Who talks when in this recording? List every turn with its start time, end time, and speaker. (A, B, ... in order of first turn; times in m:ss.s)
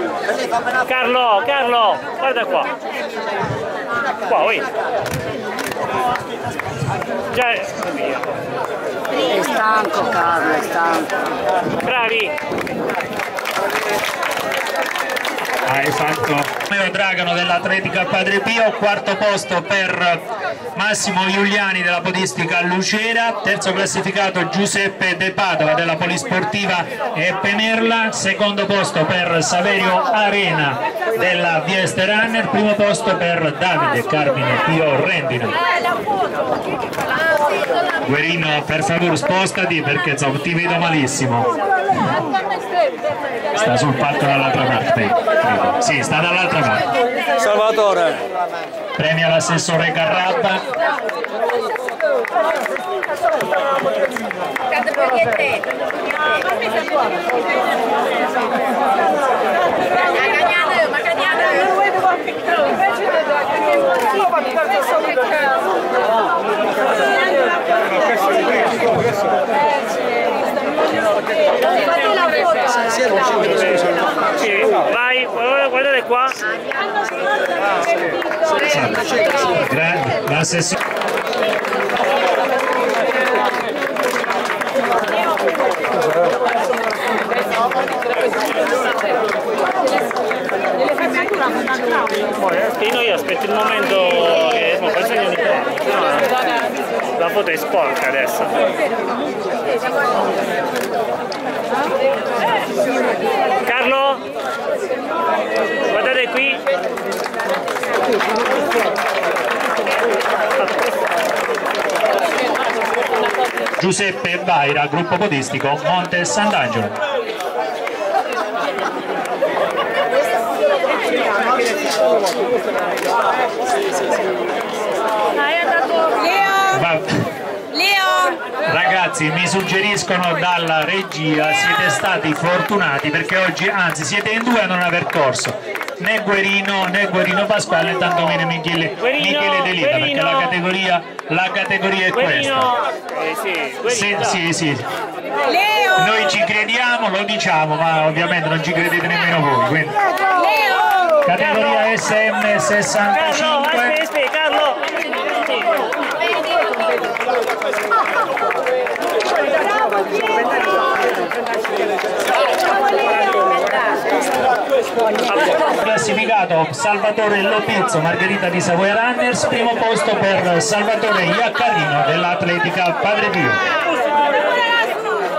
0:00.8-0:02.8 A
0:04.2-0:04.7 A
0:07.3-0:08.5 A
0:09.2-0:11.2 B
0:11.8-0:12.4 A
0:15.6-0:35.6 C
0:38.0-0:41.5 C
0:43.6-0:46.9 C
0:47.5-0:48.2 A
0:49.0-0:50.7 C
0:54.9-0:55.5 B
1:00.3-1:01.7 B
1:13.2-1:16.6 A
1:18.6-1:20.8 C
1:32.3-1:36.6 A
1:37.1-1:38.8 A
1:43.6-1:44.3 A
1:45.9-1:46.6 A
1:53.8-1:57.0 C
2:05.6-2:06.5 A
2:06.6-2:07.3 C
2:08.6-2:22.8 C
2:19.1-2:20.4 A
2:22.4-2:24.0 A
2:23.8-2:24.9 C
2:25.9-2:30.4 C
2:30.4-2:31.2 A
2:31.2-2:34.0 C
2:33.3-2:35.6 A
2:45.5-2:53.6 C